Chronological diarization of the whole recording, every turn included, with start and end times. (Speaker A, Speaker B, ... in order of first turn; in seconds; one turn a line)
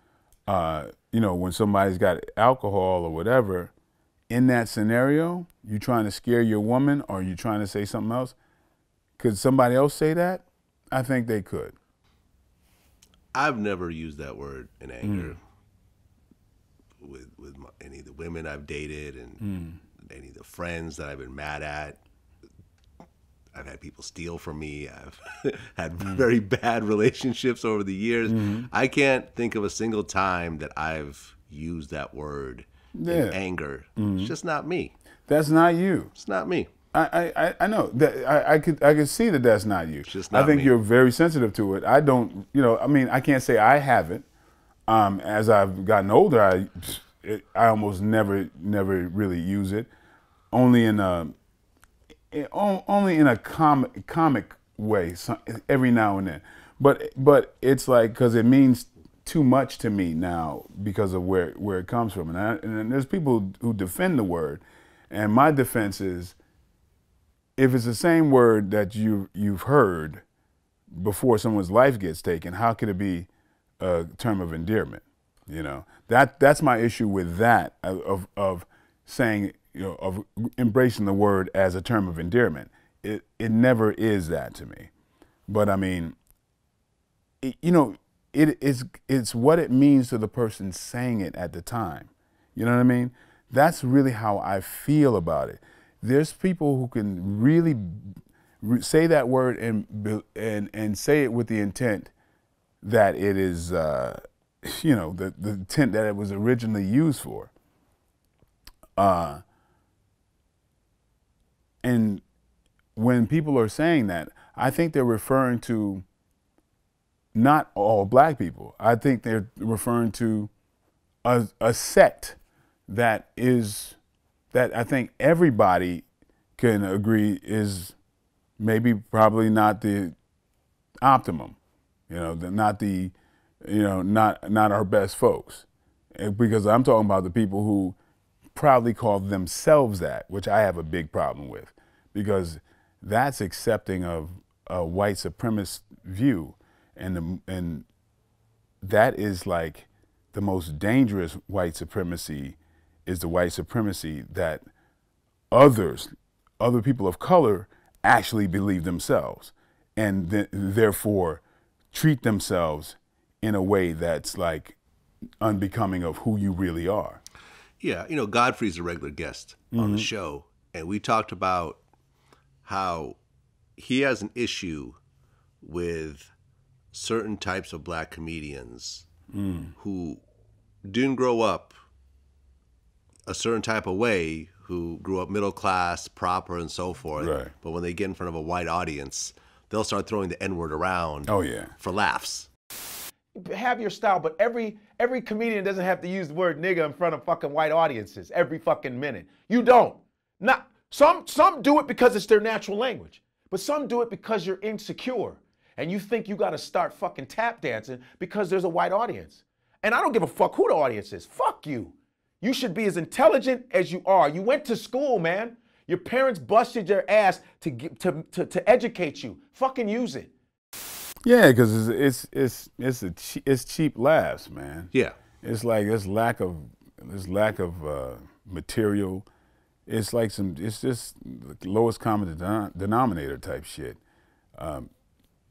Speaker A: 0.5-3.7
Speaker A: 4.3-8.4
Speaker A: 9.2-11.8
Speaker B: 13.3-15.4
Speaker A: 15.0-15.4
Speaker B: 17.0-19.4
Speaker A: 19.4-19.8
Speaker B: 20.0-22.0
Speaker B: 23.6-34.9
Speaker A: 28.3-28.7
Speaker A: 33.0-33.4
Speaker A: 34.0-34.3
Speaker A: 35.3-36.1
Speaker B: 36.1-36.7
Speaker A: 36.9-44.3
Speaker B: 40.1-40.8
Speaker A: 44.9-49.9
Speaker A: 50.5-51.4
Speaker A: 52.3-66.4
Speaker A: 67.6-70.2
Speaker A: 70.9-73.3
Speaker A: 73.8-84.9
Speaker A: 85.5-86.2
Speaker A: 87.4-102.1
Speaker A: 102.8-107.5
Speaker A: 109.0-109.4
Speaker A: 111.8-112.2
Speaker A: 113.0-116.0
Speaker A: 117.3-120.5
Speaker A: 121.2-124.0
Speaker A: 124.5-126.1
Speaker A: 126.6-128.0
Speaker A: 128.6-130.2
Speaker A: 131.0-131.6
Speaker A: 132.1-138.0
Speaker A: 138.6-147.9
Speaker A: 148.8-154.6
Speaker A: 155.5-164.8
Speaker A: 165.4-167.2
Speaker B: 167.8-171.8
Speaker A: 169.7-170.1
Speaker B: 172.7-173.2
Speaker B: 173.8-175.0
Speaker B: 175.6-176.3
Speaker B: 176.9-179.1
Speaker A: 179.3-179.8
Speaker B: 179.8-180.2
Speaker B: 180.8-181.7
Speaker B: 183.3-192.5
Speaker A: 187.2-187.5
Speaker A: 191.3-191.8
Speaker C: 193.4-220.3
Speaker A: 221.2-229.3
Speaker A: 229.9-234.0
Speaker A: 234.6-234.9